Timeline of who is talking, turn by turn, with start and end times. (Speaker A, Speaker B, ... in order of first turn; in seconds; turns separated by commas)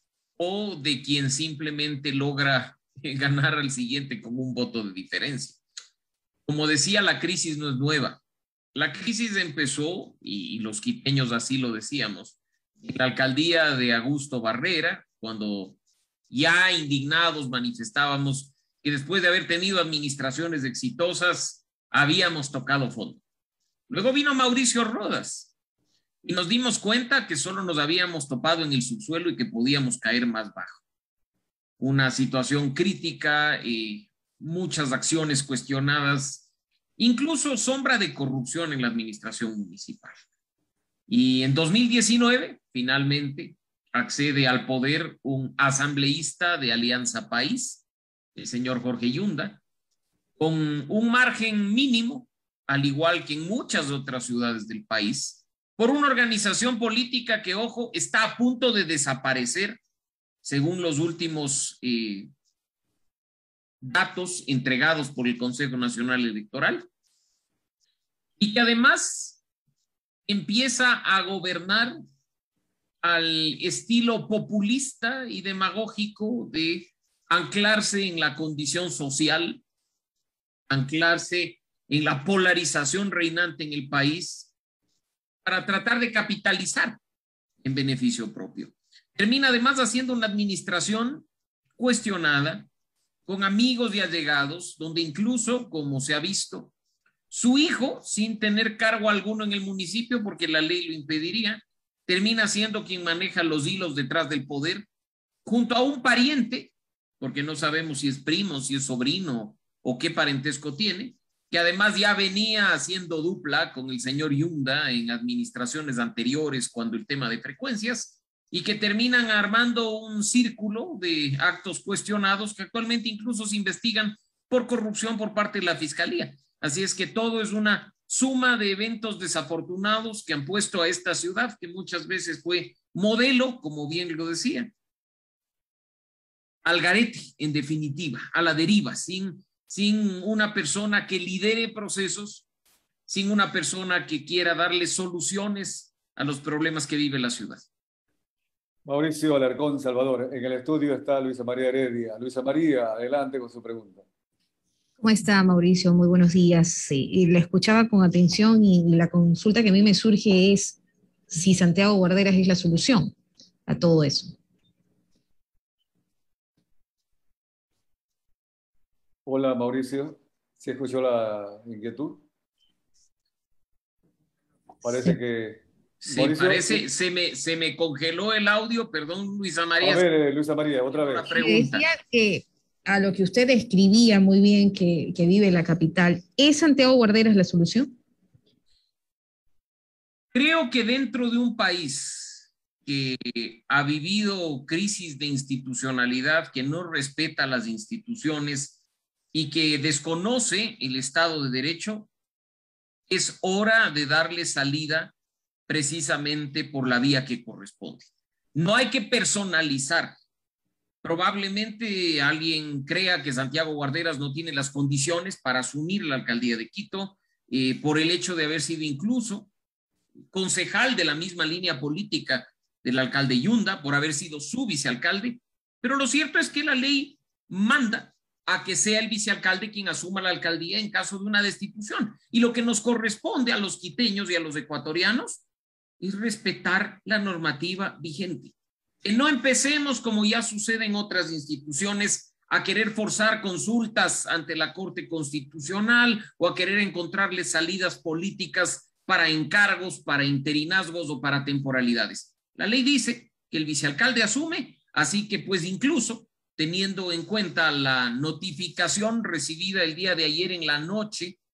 Speaker A: 0.4-5.6, Speaker A: 6.5-8.2, Speaker A: 8.7-15.8, Speaker A: 16.3-23.2, Speaker A: 23.9-25.5, Speaker A: 26.2-30.8, Speaker A: 31.8-36.5, Speaker A: 37.0-40.2, Speaker A: 41.1-47.8, Speaker A: 48.4-49.6, Speaker A: 50.4-59.8, Speaker A: 60.4-62.3, Speaker A: 63.8-66.9, Speaker A: 68.4-69.4, Speaker A: 70.3-72.0, Speaker A: 73.0-79.6, Speaker A: 80.7-84.5, Speaker A: 85.4-87.0, Speaker A: 87.6-91.3, Speaker A: 91.8-92.7, Speaker A: 93.3-96.7, Speaker A: 97.3-104.9, Speaker A: 105.5-134.7, Speaker A: 136.6-142.5, Speaker A: 143.1-147.7, Speaker B: 148.9-154.1, Speaker C: 155.0-160.8, Speaker C: 161.3-163.1, Speaker C: 163.7-164.4, Speaker B: 169.3-172.2, Speaker B: 174.8-176.8, Speaker C: 174.9-175.2, Speaker A: 176.0-180.1, Speaker B: 179.8-181.3, Speaker A: 180.9-181.8, Speaker C: 181.3-187.9, Speaker A: 190.3-198.8, Speaker A: 199.3-202.1, Speaker A: 203.1-205.1, Speaker A: 205.7-210.2, Speaker A: 211.0-219.5, Speaker A: 220.3-235.4, Speaker A: 236.0-261.4